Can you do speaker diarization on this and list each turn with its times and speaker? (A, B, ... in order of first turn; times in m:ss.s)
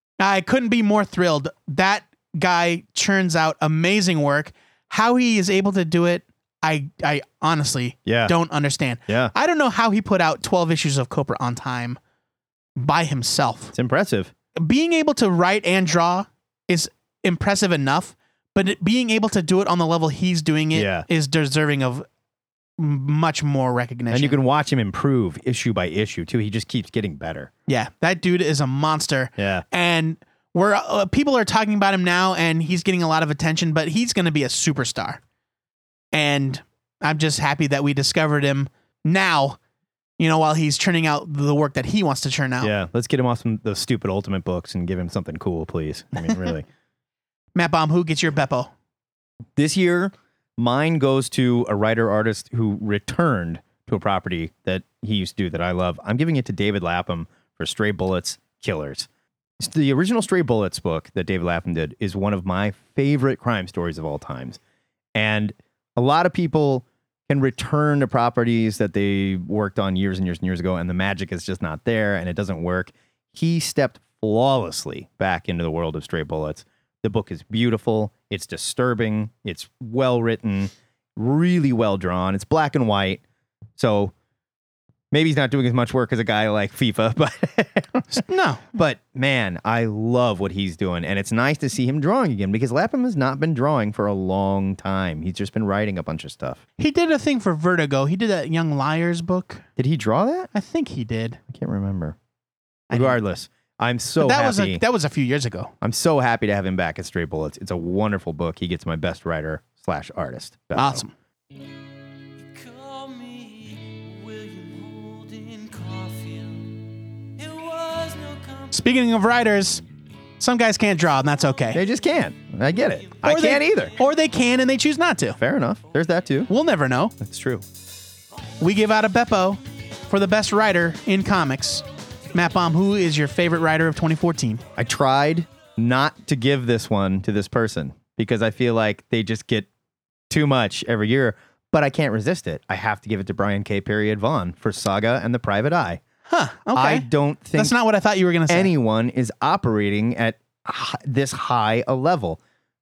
0:00.2-0:12.0 A
0:08.0-0:08.3 B
0:09.1-0:09.3 B
0:12.8-0:13.7 A
0:13.7-0:14.3 B
0:14.6-0:22.0 A
0:20.7-0:21.0 B
0:22.8-0:24.4 A
0:24.1-0:27.5 B
0:27.7-0:35.2 A
0:29.4-0:29.6 B
0:36.1-0:39.6 A
0:40.2-0:42.7 A
0:42.6-0:46.6 B
0:47.5-0:48.7 A
0:49.6-0:59.1 B
0:59.6-1:04.6 B
1:05.1-1:23.2 B
1:23.8-1:24.1 B
1:25.1-1:36.6 B
1:28.1-1:28.6 A
1:36.8-1:39.6 A
1:39.8-1:40.5 B
1:40.5-1:41.4 A
1:41.5-1:42.2 B
1:42.9-1:43.2 A
1:42.9-1:44.8 B
1:44.2-1:45.7 A
1:45.8-1:51.0 B
1:50.7-1:51.1 A
1:52.4-1:58.7 C
1:58.7-1:59.8 A
2:00.4-2:01.8 A
2:01.7-2:03.9 B
2:03.2-2:05.4 A
2:05.4-2:06.5 B
2:06.5-2:07.1 A
2:07.2-2:07.6 B
2:08.6-2:14.6 A
2:14.8-2:19.7 B
2:20.3-2:26.0 B
2:26.3-2:28.7 A
2:26.7-2:27.7 B
2:28.5-2:32.4 B